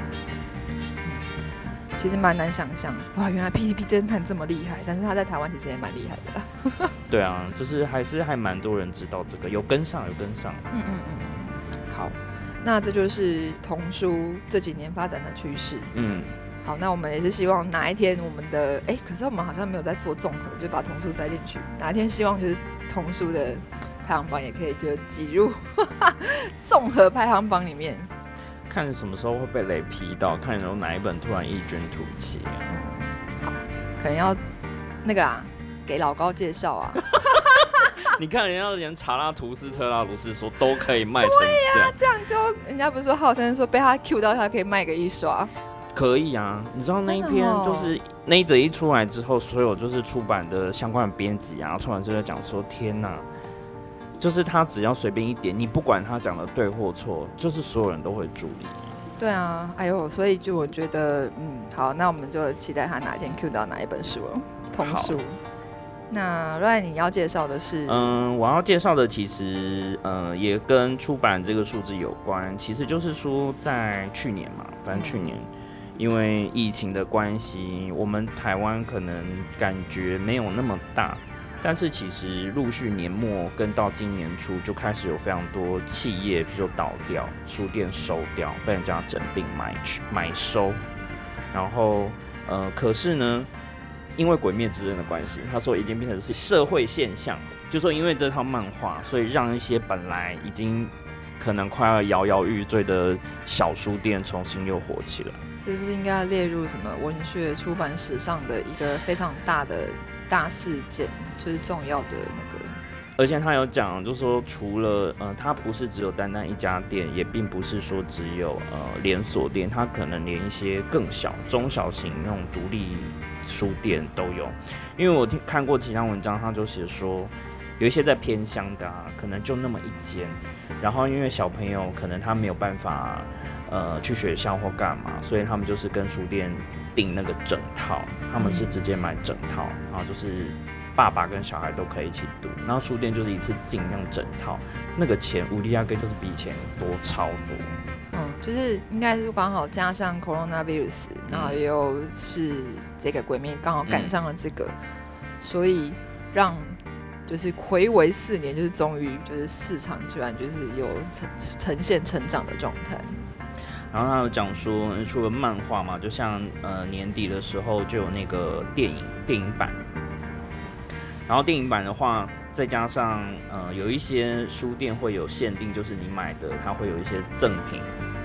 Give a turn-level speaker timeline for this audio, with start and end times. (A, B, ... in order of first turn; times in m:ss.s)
0:02.0-0:06.9 A
0:07.1-0:10.7 B
0:10.7-0:16.0 A
0:15.9-0:16.3 B
0:16.6-0:28.1 A
0:28.7-0:32.7 B
0:32.7-0:34.4 A
0:35.0-0:37.9 A
0:37.9-0:42.0 B
0:41.2-0:45.5 A
0:45.9-0:53.3 B
0:47.1-0:48.0 A
0:54.2-0:58.9 B
0:59.2-1:05.4 A
1:04.8-1:05.2 B
1:06.1-1:08.2 A
1:07.9-1:30.8 B
1:14.9-1:15.2 A
1:31.5-1:33.5 B
1:34.2-1:45.4 B
1:45.6-1:52.8 A
1:53.2-2:27.8 B
2:18.4-2:18.7 A
2:28.1-2:34.7 A
2:31.3-2:31.6 B
2:35.4-2:43.2 A
2:43.9-2:49.8 B
2:51.3-2:58.0 B